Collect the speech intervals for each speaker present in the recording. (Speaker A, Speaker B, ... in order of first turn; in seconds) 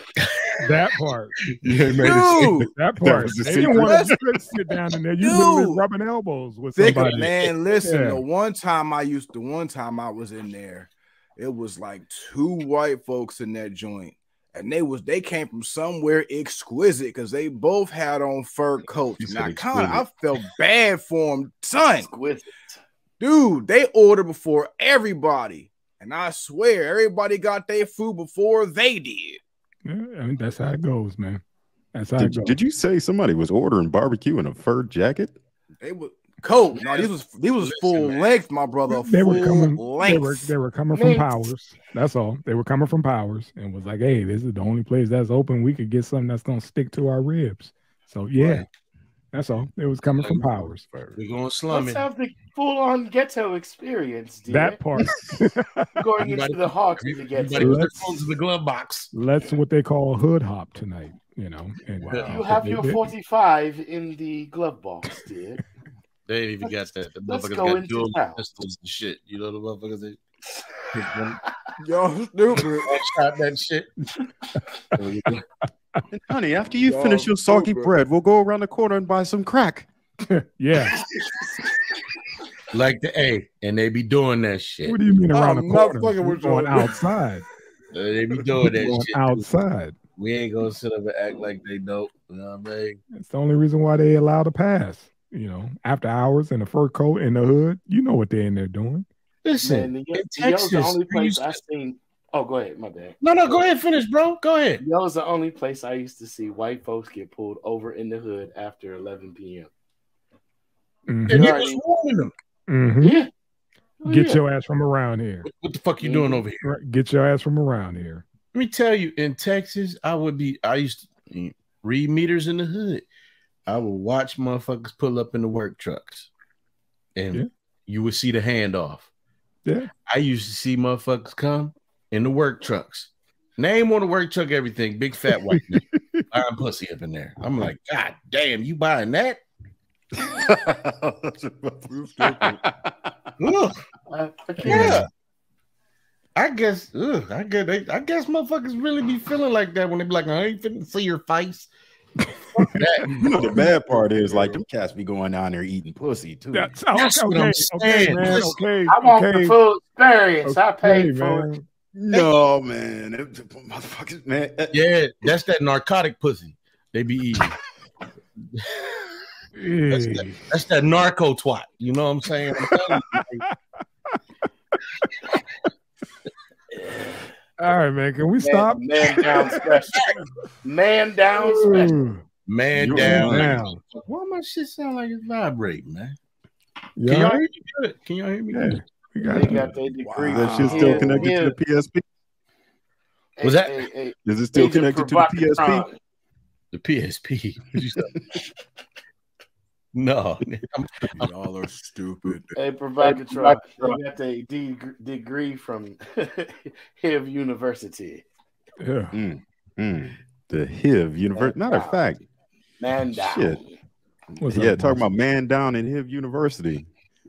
Speaker A: 0.2-0.9, 1.5-2.6, 6.8-7.5, 36.7-38.3, 48.4-48.7, 50.0-52.1, 56.2-59.1, 62.0-62.4, 66.3-70.2, 70.9-71.4, 72.5-73.9, 75.0-75.4, 82.7-85.0, 87.9-89.5, 90.2-93.0, 99.4-101.6, 103.2-104.8, 111.3-112.3, 115.4-116.6, 118.5-123.0, 123.7-126.3, 127.2-129.1, 130.1-139.4, 143.4-143.7, 144.6-145.1, 146.3-151.7, 152.6-153.3, 156.9-158.6, 164.7-167.6, 169.9-173.4, 182.4-186.2, 187.0-188.7, 193.4-193.9, 196.7-198.2, 199.9-201.1, 203.0-204.0
Speaker B: 0.6-1.3, 2.6-7.3, 7.8-8.2, 29.8-31.4, 31.9-32.6, 38.9-48.6, 49.3-50.8, 54.5-56.0, 57.6-58.2, 59.1-63.1, 80.3-81.0, 84.8-87.4, 88.4-89.9, 93.1-99.1, 111.1-111.6, 112.7-113.2, 114.0-115.5, 116.6-118.2, 135.5-136.2, 152.2-152.8, 153.5-154.4, 156.5-159.6, 160.4-161.6, 169.6-170.4, 172.7-173.5, 177.6-179.6, 181.4-182.2, 182.9-183.8, 186.9-187.4, 188.6-189.7, 208.8-209.1, 214.4-215.1
Speaker C: 1.9-2.7, 3.6-4.2, 5.2-5.8, 6.7-22.1, 23.2-29.4, 35.8-40.5, 71.8-72.9, 76.8-78.0, 85.3-87.0, 141.9-142.6, 190.0-191.3, 201.2-202.5
Speaker D: 3.0-4.0, 19.2-20.0, 32.2-35.3, 76.1-79.9, 140.2-142.9, 153.2-156.7, 161.9-164.8, 182.7-183.5, 188.5-188.8, 190.3-192.0, 194.2-195.9, 209.1-212.2, 213.2-213.6, 214.4-216.9
Speaker E: 22.0-22.8, 40.9-41.5, 51.7-54.9, 56.0-57.8, 62.2-65.6, 67.2-68.4, 99.6-103.7, 104.8-109.7, 111.3-111.8, 113.0-113.3, 114.0-114.4, 116.0-116.5, 144.1-145.0, 158.9-161.5, 176.7-177.3, 178.4-182.0, 189.2-191.6, 193.4-196.0, 202.6-208.2, 211.3-212.2, 212.8-213.8